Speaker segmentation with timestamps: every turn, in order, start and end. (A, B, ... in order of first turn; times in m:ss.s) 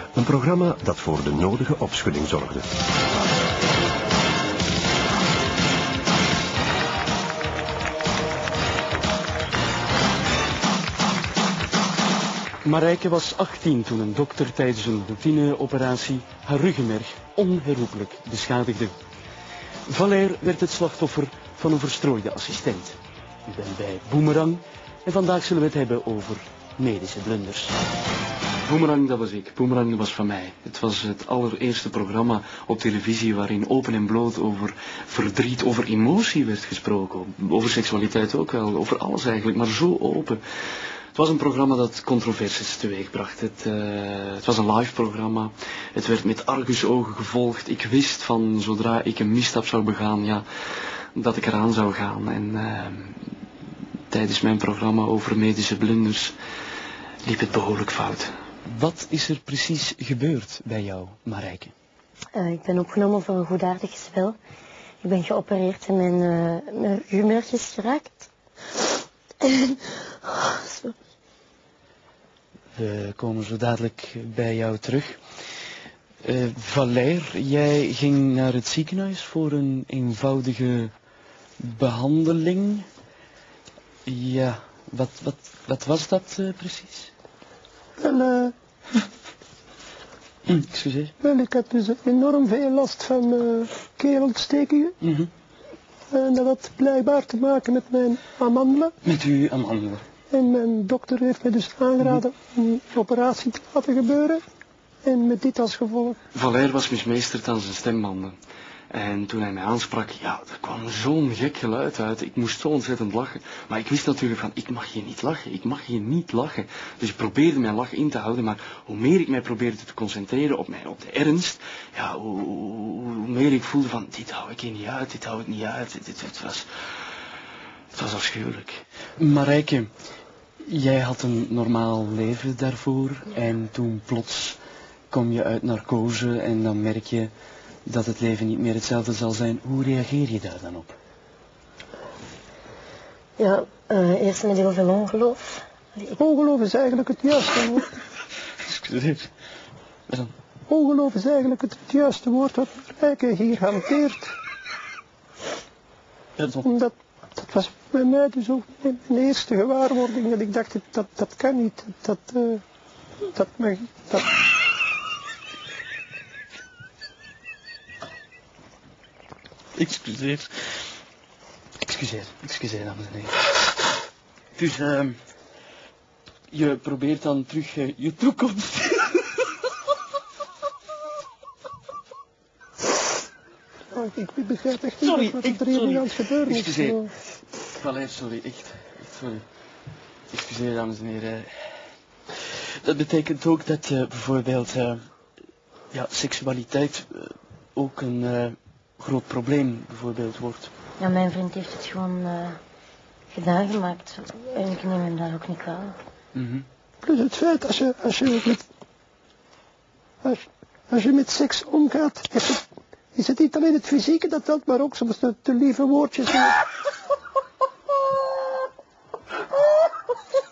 0:00.1-0:02.7 A
0:12.6-0:18.9 B
0:19.8-0:27.8 B
0:28.6-0:40.4 B
0:41.1-0:50.4 B
0:51.1-0:53.3 B
0:54.1-0:56.3 B
0:57.2-1:01.7 B
1:02.3-1:04.4 C
1:05.0-1:08.3 C
1:09.4-1:10.9 C
1:12.7-1:15.2 B
1:16.2-1:20.9 B
1:21.6-1:22.9 B
1:24.0-1:27.1 B
1:28.0-1:28.5 D
1:30.4-1:31.1 B
1:31.2-1:34.9 D
1:35.0-1:35.3 B
1:36.1-1:38.9 D
1:39.0-1:40.0 B
1:40.3-1:44.4 D
1:45.0-1:46.2 D
1:46.3-1:48.4 B
1:48.9-2:06.7 B
2:07.9-2:09.9 B
2:10.6-2:14.6 B
2:15.1-2:17.3 B
2:17.8-2:21.0 B
2:23.4-2:26.1 C
2:26.1-2:27.9 D
2:28.6-2:29.3 B
2:30.7-2:34.3 D
2:36.4-2:36.7 B
2:36.6-2:42.6 D
2:43.3-2:44.2 D
2:49.7-2:50.5 B
2:51.8-2:53.4 B
2:54.6-2:55.2 B
2:56.5-2:59.4 B
3:03.9-3:07.1 D
3:05.0-3:07.0 B
3:07.8-3:09.4 B
3:10.3-3:11.5 B
3:12.5-3:15.0 B
3:15.9-3:20.7 B
3:21.0-3:22.6 C
3:23.3-3:26.0 C
3:26.3-3:26.6 B
3:27.0-3:28.6 D
3:30.2-3:32.6 D
3:33.1-3:36.6 D